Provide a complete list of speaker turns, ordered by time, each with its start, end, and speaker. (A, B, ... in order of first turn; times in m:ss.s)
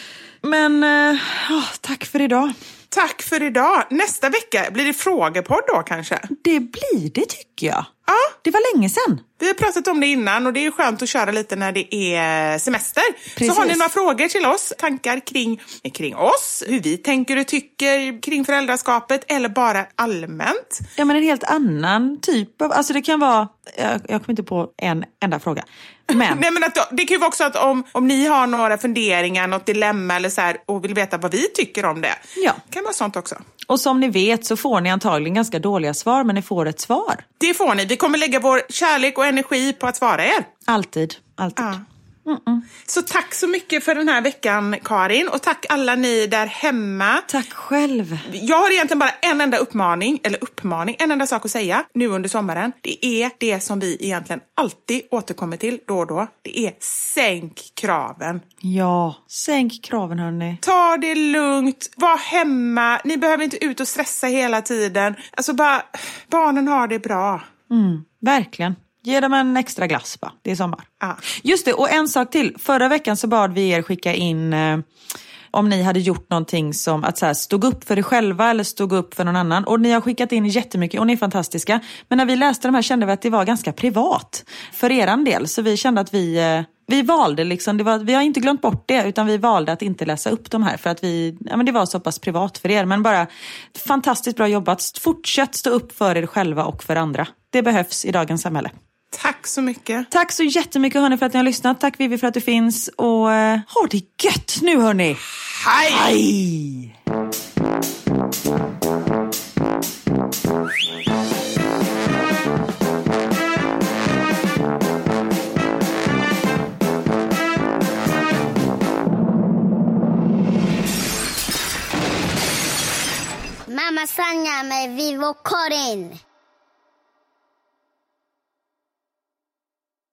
0:00.4-0:02.6 A
0:02.9-0:06.3 B
0:06.3-0:07.9 A
0:08.1-0:08.3 B
0:08.4-0:09.2 A
0:09.4-0:20.9 B
0:13.4-0:13.9 A
0:21.0-0:26.4 A
0:26.1-0:33.4 B
0:33.7-0:37.2 A
0:37.4-0:40.5 B
0:40.7-0:42.7 A
0:41.6-0:41.8 B
0:42.9-0:47.3 B
0:47.3-0:48.2 A
0:48.3-0:58.4 B
0:58.6-1:00.6 A
1:00.6-1:07.5 B
1:07.7-1:10.9 A
1:11.4-1:14.8 A
1:15.5-1:38.7 A
1:39.1-1:40.1 B
1:40.1-1:45.2 A
1:45.5-1:46.1 B
1:45.9-1:46.9 A
2:03.7-2:06.2 C